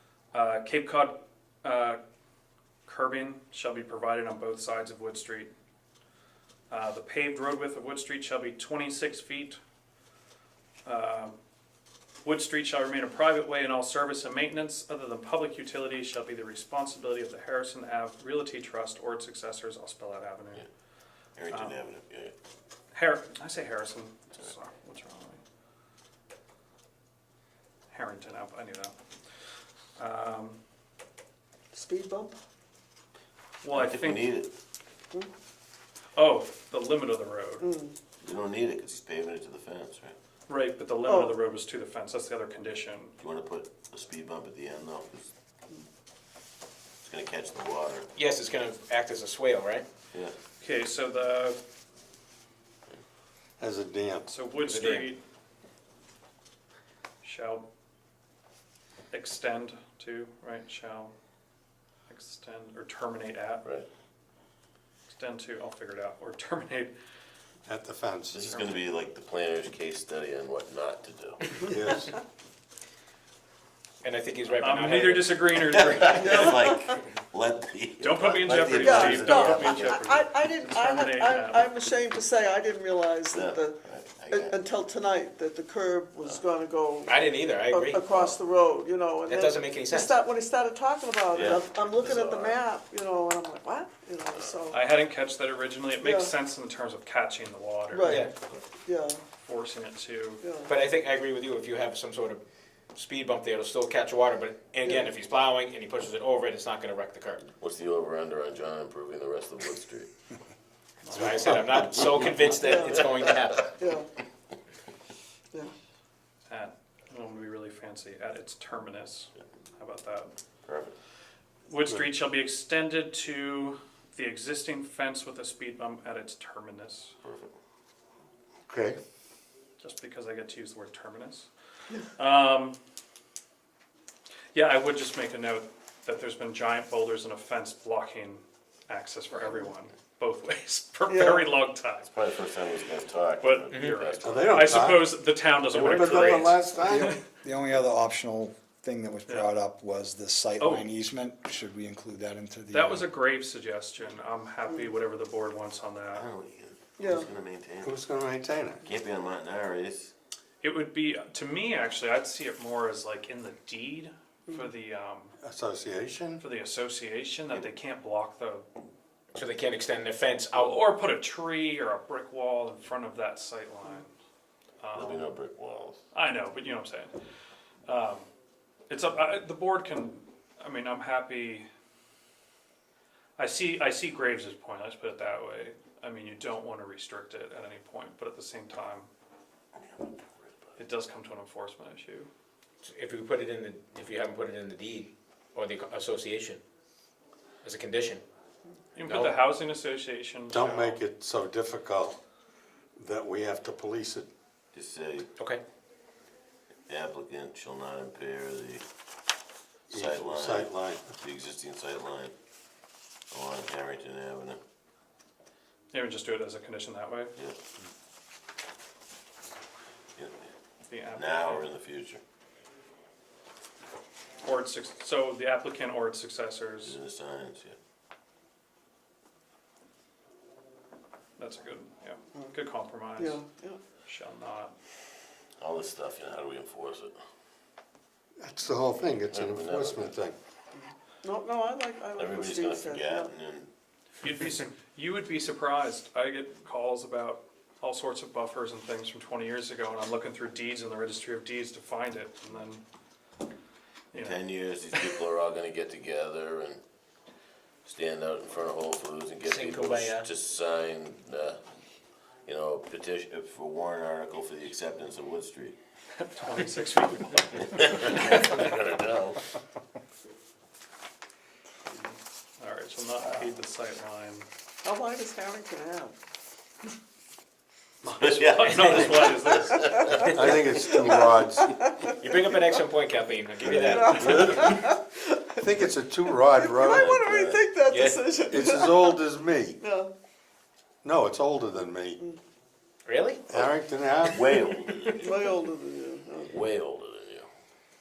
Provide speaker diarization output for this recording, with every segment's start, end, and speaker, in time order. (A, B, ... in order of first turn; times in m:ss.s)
0:00.3-0:02.0 A
0:02.9-0:05.5 A
0:06.7-0:09.6 A
0:10.8-0:11.4 A
0:12.2-0:20.6 A
0:21.4-0:22.3 B
0:21.5-0:21.8 A
0:22.9-0:25.4 A
0:27.9-0:28.9 A
0:30.0-0:30.6 A
0:31.7-0:32.3 C
0:33.6-0:34.3 A
0:33.7-0:34.5 B
0:36.2-0:37.7 A
0:37.6-0:38.1 C
0:38.2-0:40.1 B
0:40.5-0:43.2 A
0:41.0-0:41.4 C
0:43.2-0:45.3 B
0:47.0-0:48.1 B
0:48.2-0:49.9 D
0:50.6-0:51.6 A
0:53.6-0:54.3 E
0:54.3-0:55.2 A
0:54.7-0:55.1 D
0:57.2-0:57.6 A
0:59.1-1:01.1 A
1:02.1-1:03.7 A
1:05.1-1:06.9 A
1:07.7-1:08.4 E
1:08.3-1:11.6 B
1:08.5-1:08.8 A
1:11.6-1:12.0 C
1:11.6-1:12.1 E
1:14.0-1:15.4 D
1:14.6-1:16.6 A
1:15.7-1:20.1 B
1:16.2-1:17.0 C
1:18.0-1:21.7 A
1:18.7-1:34.8 C
1:23.3-1:24.6 B
1:27.1-1:28.3 D
1:29.3-1:30.2 D
1:31.3-1:32.6 B
1:34.7-1:38.3 A
1:36.0-1:36.3 C
1:37.9-1:39.2 C
1:38.0-1:38.3 D
1:38.4-1:38.7 B
1:39.4-1:40.4 A
1:40.4-1:40.7 C
1:40.7-1:42.4 D
1:42.9-1:47.5 D
1:47.5-1:50.2 B
1:51.0-1:51.6 A
1:51.1-1:53.7 D
1:52.6-1:53.1 C
1:52.7-1:53.2 B
1:53.8-1:54.1 C
1:56.5-2:00.3 A
2:00.7-2:01.0 B
2:01.7-2:07.2 A
2:07.2-2:07.6 B
2:08.7-2:09.0 E
2:09.8-2:11.5 A
2:12.2-2:12.8 A
2:14.5-2:22.1 A
2:21.1-2:21.5 C
2:22.0-2:24.9 B
2:23.4-2:27.2 A
2:23.7-2:24.0 D
2:24.2-2:27.1 E
2:26.0-2:26.4 B
2:26.8-2:33.1 F
2:30.6-2:30.9 A
2:32.7-2:36.3 A
2:36.1-2:38.0 B
2:37.0-2:37.3 C
2:37.8-2:38.9 E
2:38.8-2:40.1 B
2:40.6-2:45.3 A
2:45.4-2:46.4 E
2:46.4-2:48.7 A
2:49.3-2:50.7 D
2:50.6-2:54.1 A
2:54.8-2:55.3 A
2:54.9-2:56.0 B
2:56.1-2:57.1 A
2:57.9-2:58.3 A
2:58.9-3:01.7 A
3:03.4-3:09.1 A
3:09.8-3:10.5 B
3:10.8-3:12.3 A
3:12.8-3:16.6 D
3:17.6-3:18.2 D
3:19.0-3:21.0 A
3:19.1-3:19.4 D
3:20.5-3:22.2 E
3:23.0-3:24.3 E
3:24.7-3:25.3 B
3:25.4-3:25.6 D
3:26.9-3:28.8 B
3:29.9-3:32.3 B
3:29.9-3:31.2 E
3:33.3-3:34.6 B
3:35.9-3:37.3 A
3:40.9-3:41.7 A
3:41.2-3:42.2 B
3:44.4-3:47.0 A
3:46.8-3:47.8 B
3:51.4-3:53.4 A
3:53.2-3:53.8 C
3:54.1-3:54.8 A
3:55.6-3:57.2 B
3:58.4-4:00.4 E
3:59.1-4:00.2 B
4:00.8-4:03.3 C
4:02.2-4:03.7 B
4:04.2-4:12.8 A
4:14.1-4:14.4 A
4:14.1-4:16.8 B
4:17.8-4:21.6 B
4:19.4-4:20.3 D
4:22.5-4:25.8 B
4:26.2-4:28.5 A
4:27.7-4:29.4 B
4:32.6-4:34.5 A
4:34.8-4:36.2 C
4:38.0-4:40.2 A
4:38.1-4:40.4 B
4:38.8-4:39.0 D
4:40.0-4:42.7 C
4:40.2-4:40.6 D
4:40.4-4:41.7 E
4:42.2-4:44.7 D
4:43.6-4:45.6 C
4:44.1-4:44.8 B
4:45.6-4:47.5 E
4:46.5-4:49.2 C
4:47.1-4:48.3 D
4:48.5-4:49.8 E
4:49.8-4:50.1 C
4:51.0-4:52.2 E
4:53.1-4:53.5 D
4:53.5-4:54.6 E
4:53.5-4:55.4 B
4:55.1-4:56.6 C
4:56.5-4:57.5 B